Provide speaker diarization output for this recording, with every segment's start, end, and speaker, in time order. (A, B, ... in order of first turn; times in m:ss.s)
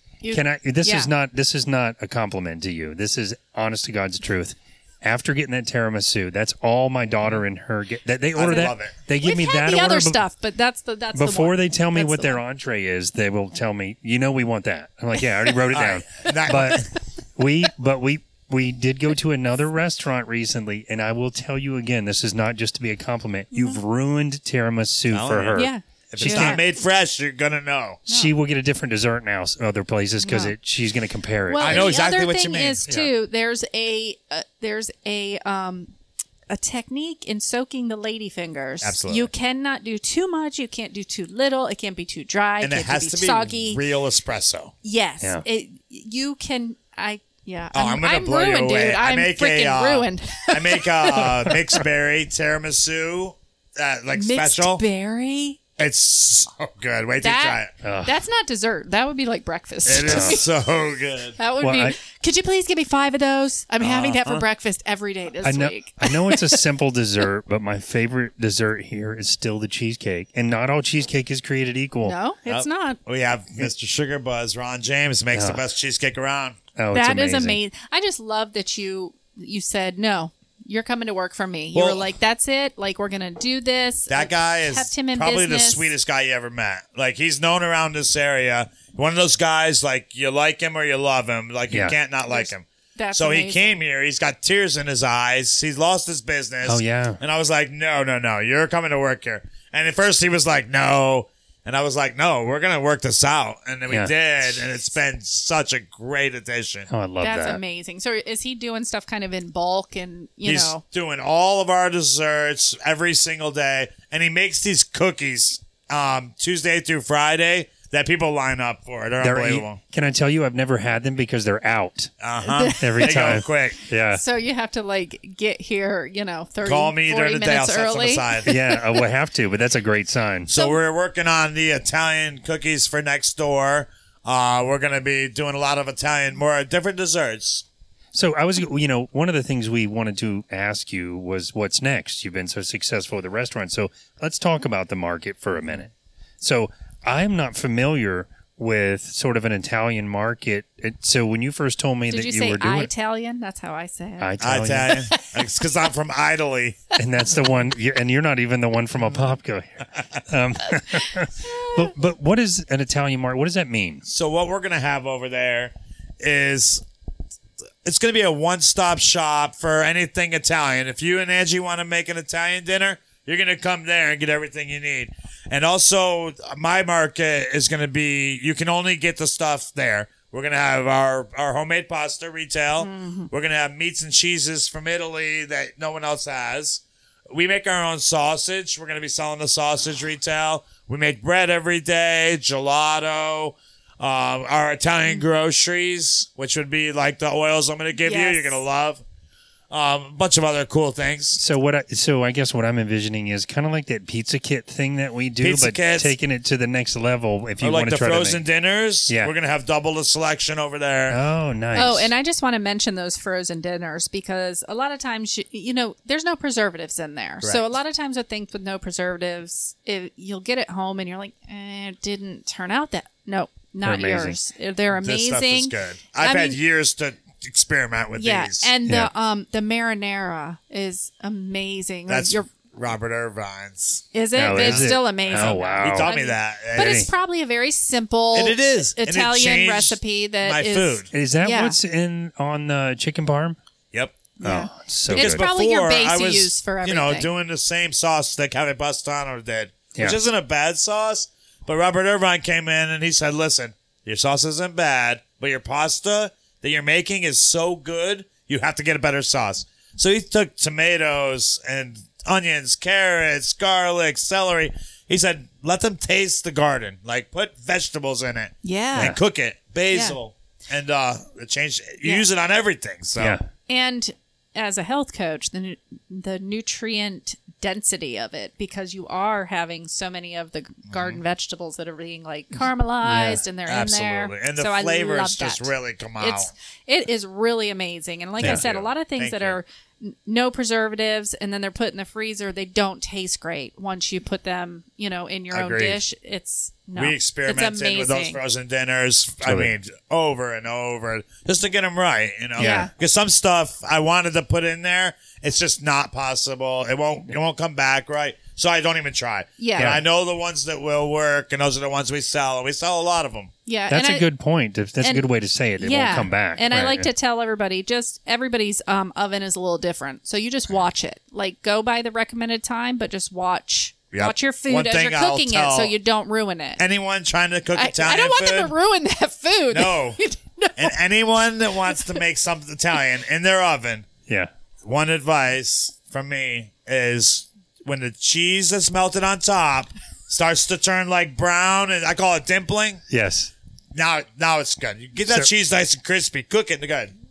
0:00.2-0:01.1 A
0:00.3-0:10.2 B
0:08.4-0:09.0 C
0:09.2-0:12.4 A
0:11.2-0:26.6 B
0:15.7-0:16.9 C
0:23.5-0:23.8 A
0:25.1-0:28.0 C
0:25.6-0:26.6 A
0:28.1-0:32.0 B
0:30.2-0:30.5 A
0:31.5-0:35.9 A
0:31.6-0:32.8 C
0:36.5-0:43.8 A
0:38.8-0:39.3 C
0:42.6-0:44.7 C
0:44.8-0:51.8 A
0:47.7-0:54.8 C
0:54.2-0:55.6 A
0:55.8-0:57.7 C
0:57.2-1:00.5 A
0:57.8-0:58.2 B
0:59.9-1:01.4 C
1:00.0-1:00.4 B
1:01.4-1:06.6 A
1:01.6-1:02.0 B
1:03.8-1:04.4 C
1:05.4-1:12.2 B
1:12.0-1:13.0 A
1:12.5-1:16.6 C
1:15.3-1:15.6 B
1:16.8-1:17.6 B
1:16.9-1:25.9 A
1:21.8-1:22.0 C
1:24.1-1:46.9 C
1:31.7-1:32.0 B
1:32.3-1:33.8 A
1:36.6-1:37.2 B
1:46.9-1:47.6 B
1:47.2-1:50.8 A
1:50.5-1:59.8 C
1:59.2-2:02.1 B
2:02.2-2:03.8 C
2:02.4-2:03.5 A
2:02.8-2:04.2 B
2:04.1-2:08.8 A
2:06.6-2:08.5 C
2:08.4-2:10.5 B
2:10.5-2:17.6 C
2:10.5-2:10.8 A
2:18.1-2:32.9 B
2:32.1-2:35.3 A
2:34.2-2:35.1 B
2:34.4-2:36.8 C
2:37.0-2:44.0 B
2:41.1-2:41.9 A
2:44.1-2:46.8 C
2:47.8-3:19.0 C
3:02.8-3:03.3 A
3:18.0-3:18.6 A
3:19.7-3:21.4 C
3:21.4-3:28.4 B
3:25.4-3:26.1 C
3:27.6-3:31.2 C
3:31.1-3:32.1 B
3:31.7-3:46.6 A
3:43.8-3:44.4 B
3:44.9-3:48.7 C
3:48.2-3:52.5 A
3:52.1-3:57.1 C
3:54.1-4:01.8 A
3:54.4-3:56.1 B
3:56.8-3:57.1 B
3:58.3-4:01.1 C
4:01.1-4:03.6 B
4:04.4-4:07.3 A
4:04.4-4:05.5 B
4:05.1-4:33.4 C
4:28.6-4:29.2 A
4:29.9-4:30.2 A
4:33.2-4:33.4 B
4:33.7-4:58.4 A
4:40.9-4:41.2 C
4:43.0-4:43.4 B
4:43.7-4:46.5 C
4:48.4-4:49.6 C
4:55.5-4:56.0 C
4:57.0-5:13.5 C
4:59.4-4:59.7 B
5:02.6-5:02.9 B
5:02.6-5:02.9 A
5:09.6-5:10.0 A
5:09.8-5:10.0 B
5:13.7-5:14.3 A
5:13.9-5:17.1 B
5:15.8-5:26.8 A
5:24.1-5:25.9 C
5:26.8-5:28.7 C
5:27.8-5:30.9 A
5:29.7-5:30.2 C
5:30.8-5:34.1 C
5:34.8-5:43.0 C
5:43.1-5:43.5 B
5:44.0-5:47.1 C